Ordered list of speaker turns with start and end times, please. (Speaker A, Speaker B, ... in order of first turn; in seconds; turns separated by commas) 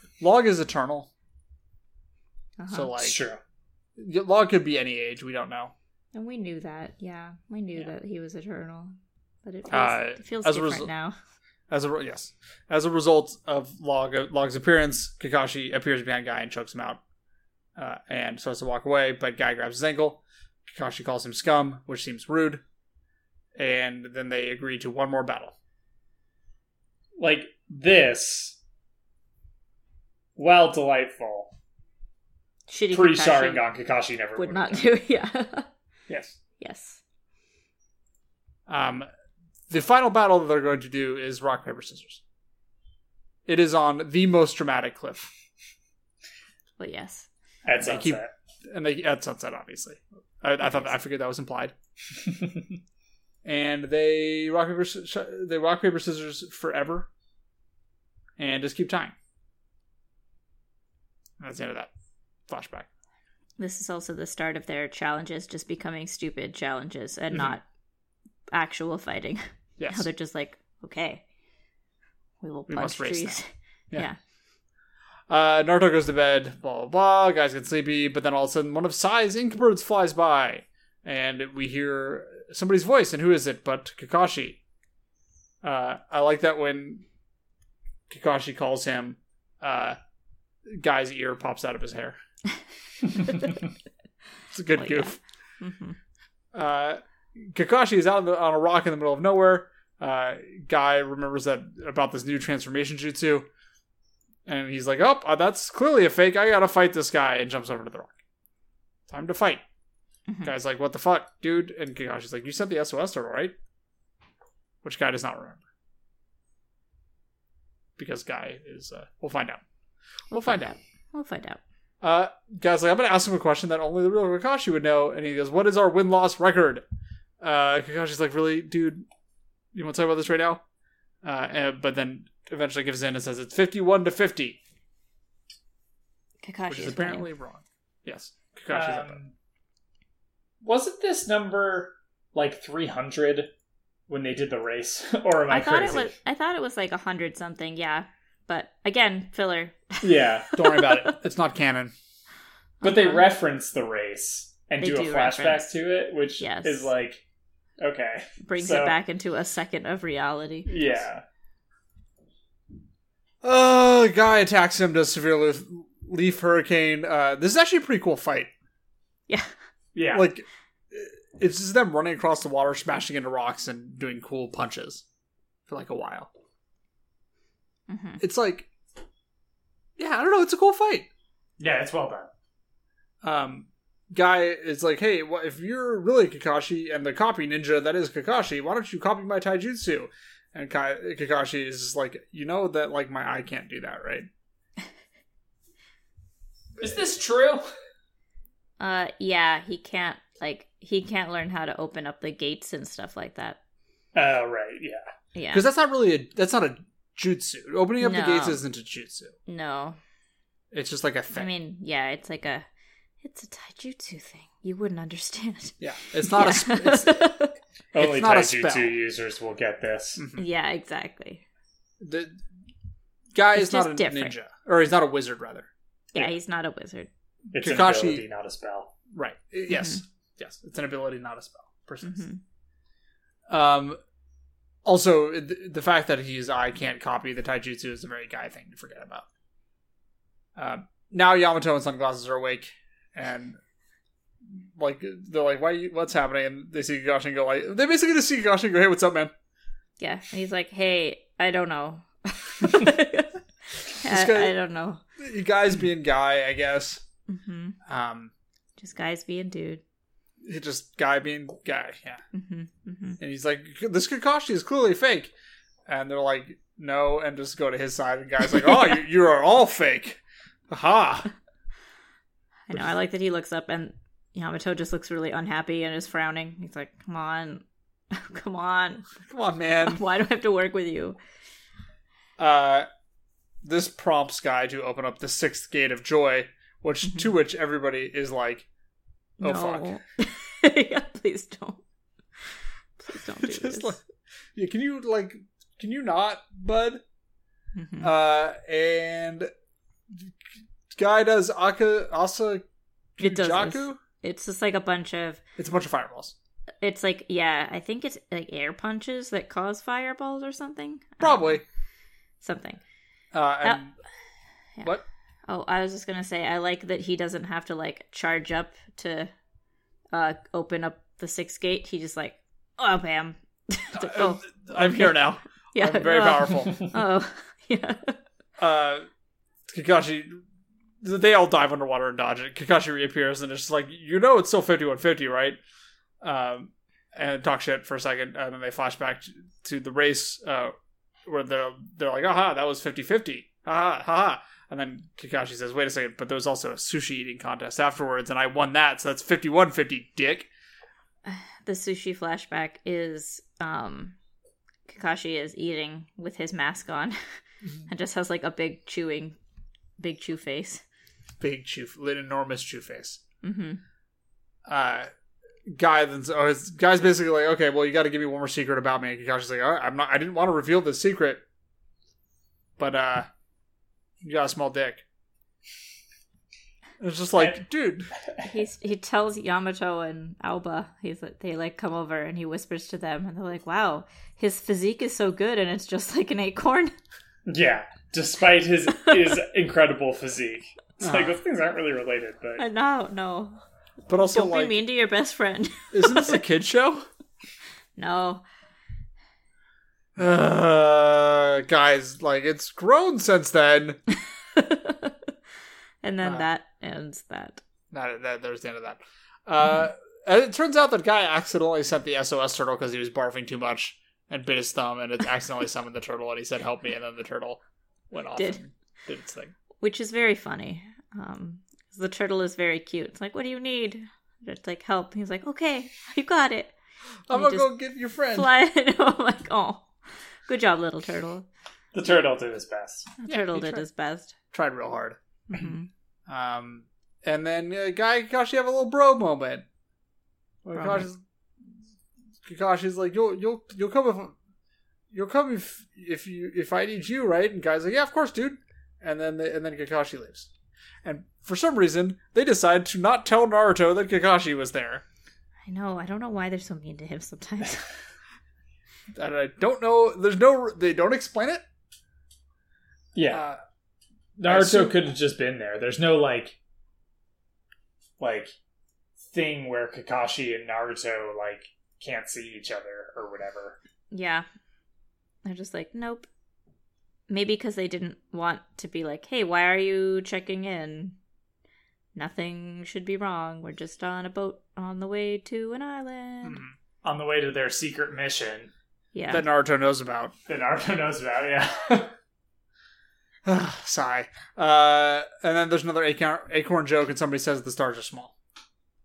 Speaker A: 0.2-1.1, Speaker B: 2.6-2.9, Speaker A: 2.7-3.2, Speaker C: 3.0-3.4, Speaker A: 4.0-5.7, Speaker B: 6.1-8.9, Speaker B: 9.4-11.2, Speaker A: 9.7-10.9, Speaker A: 11.7-17.0, Speaker A: 17.8-22.6, Speaker A: 23.6-25.6, Speaker C: 27.2-28.6, Speaker C: 30.4-31.5, Speaker B: 32.7-33.6, Speaker C: 32.9-34.9, Speaker B: 34.4-35.7, Speaker C: 36.1-36.4, Speaker B: 36.6-37.0, Speaker A: 38.7-39.1, Speaker A: 39.7-42.2, Speaker A: 43.5-45.3, Speaker B: 46.8-47.3, Speaker C: 47.6-48.3, Speaker A: 47.8-51.7, Speaker B: 50.6-50.9, Speaker A: 53.5-57.1, Speaker A: 58.4-59.1, Speaker A: 61.4-61.9, Speaker A: 62.5-62.9, Speaker B: 63.6-67.6, Speaker B: 68.5-71.2, Speaker A: 69.8-70.1, Speaker B: 72.4-74.2, Speaker A: 72.7-74.1, Speaker A: 75.3-84.6, Speaker A: 85.6-87.0, Speaker A: 88.1-90.0, Speaker A: 90.7-92.2, Speaker A: 94.5-95.2, Speaker B: 94.8-96.0, Speaker A: 96.5-103.5, Speaker A: 104.5-108.2, Speaker A: 109.1-109.6, Speaker A: 110.4-113.5, Speaker A: 114.8-115.6, Speaker A: 118.0-119.6, Speaker A: 120.3-120.8, Speaker B: 120.3-121.6, Speaker A: 122.0-126.8, Speaker A: 127.4-129.1, Speaker A: 129.7-130.6, Speaker A: 131.2-134.6, Speaker B: 136.4-137.3, Speaker A: 136.7-139.2, Speaker C: 138.7-139.3, Speaker C: 140.6-143.5, Speaker C: 144.1-146.1, Speaker B: 145.5-151.2, Speaker C: 150.0-150.5, Speaker A: 150.5-151.9, Speaker B: 152.8-153.3, Speaker C: 152.8-157.2, Speaker B: 154.8-155.7, Speaker B: 156.4-156.9, Speaker C: 157.8-159.0, Speaker B: 158.5-160.9, Speaker C: 160.7-161.2, Speaker A: 163.4-168.5, Speaker C: 169.9-170.3, Speaker A: 170.1-175.0, Speaker A: 175.7-176.3, Speaker B: 177.9-178.2, Speaker A: 178.2-178.7, Speaker A: 180.0-181.1, Speaker C: 181.6-182.3, Speaker A: 183.2-194.3, Speaker C: 196.8-197.7, Speaker B: 198.8-203.6, Speaker C: 204.2-205.0, Speaker B: 205.3-205.7, Speaker A: 205.5-209.4, Speaker B: 208.0-208.6, Speaker B: 209.5-210.0, Speaker A: 210.7-211.5, Speaker B: 211.3-212.7, Speaker B: 213.2-217.6, Speaker A: 215.8-217.4, Speaker C: 217.9-220.2, Speaker A: 218.0-218.9, Speaker A: 220.2-220.5, Speaker B: 220.4-221.4, Speaker A: 222.0-222.4, Speaker A: 223.3-226.3, Speaker B: 223.6-224.3, Speaker B: 226.1-227.1, Speaker C: 227.5-228.9, Speaker A: 227.6-228.2, Speaker A: 229.1-232.2, Speaker B: 229.7-230.0, Speaker B: 232.0-232.4, Speaker A: 233.5-234.0, Speaker A: 234.9-239.3, Speaker A: 240.6-243.6, Speaker A: 244.5-249.3, Speaker B: 250.0-255.0, Speaker A: 254.0-254.6, Speaker A: 255.2-257.0, Speaker B: 257.3-257.8, Speaker A: 257.9-258.3, Speaker B: 258.8-259.8, Speaker A: 260.4-262.2, Speaker B: 262.3-263.2, Speaker A: 263.2-265.3, Speaker A: 265.9-271.3, Speaker B: 272.7-279.1, Speaker A: 279.2-280.0, Speaker B: 279.8-281.2, Speaker A: 282.4-282.9, Speaker A: 283.6-288.7, Speaker B: 287.1-287.3, Speaker A: 289.4-290.0, Speaker B: 289.4-291.8, Speaker B: 292.4-294.0, Speaker A: 293.4-294.0, Speaker A: 294.6-297.0, Speaker B: 297.8-298.1, Speaker A: 298.0-299.5, Speaker A: 300.9-302.6, Speaker A: 303.2-304.0, Speaker B: 303.2-305.4, Speaker A: 305.6-306.4, Speaker B: 306.8-311.5, Speaker A: 311.2-311.6, Speaker B: 312.4-312.8, Speaker A: 313.3-314.0, Speaker B: 315.5-319.3, Speaker B: 320.1-328.2, Speaker A: 324.0-326.9, Speaker A: 328.6-329.1, Speaker A: 329.7-330.4, Speaker A: 331.0-335.6, Speaker A: 336.2-340.7, Speaker A: 341.3-350.5, Speaker B: 351.2-354.2, Speaker B: 354.9-357.2, Speaker B: 357.9-359.4, Speaker B: 360.0-360.8, Speaker A: 361.4-363.2, Speaker B: 363.4-363.8, Speaker A: 364.7-365.1, Speaker A: 365.7-371.4, Speaker A: 372.8-373.3, Speaker A: 374.2-375.0, Speaker A: 377.0-378.1, Speaker C: 378.2-378.5, Speaker B: 378.5-386.9, Speaker C: 387.5-392.6, Speaker A: 391.0-391.4, Speaker B: 392.6-393.6, Speaker A: 394.1-394.8, Speaker B: 394.2-396.4, Speaker A: 395.9-397.1, Speaker B: 398.0-398.4, Speaker A: 400.2-404.0, Speaker B: 404.1-405.3, Speaker B: 406.0-407.6, Speaker A: 407.9-419.5, Speaker B: 419.8-426.7, Speaker A: 427.3-428.5, Speaker B: 427.3-427.7, Speaker B: 428.3-429.9, Speaker B: 430.5-431.5, Speaker C: 431.9-433.1, Speaker B: 433.2-434.4, Speaker A: 433.2-433.9, Speaker A: 434.5-435.7, Speaker B: 435.5-435.9, Speaker A: 436.3-439.6, Speaker A: 440.6-441.2, Speaker B: 440.8-441.1, Speaker A: 442.4-444.4, Speaker A: 445.1-450.5, Speaker A: 451.0-455.0, Speaker B: 455.6-457.9, Speaker A: 459.2-461.6, Speaker C: 463.1-463.4, Speaker A: 463.3-463.6, Speaker C: 464.4-466.6, Speaker A: 464.4-465.0, Speaker C: 468.2-468.5, Speaker C: 469.2-473.8, Speaker B: 474.1-474.5, Speaker B: 475.4-476.3, Speaker B: 477.3-481.2, Speaker B: 482.1-486.6, Speaker A: 486.4-486.7, Speaker C: 487.0-488.7, Speaker B: 489.1-489.4, Speaker A: 489.3-490.3, Speaker C: 490.5-492.1, Speaker A: 493.4-498.3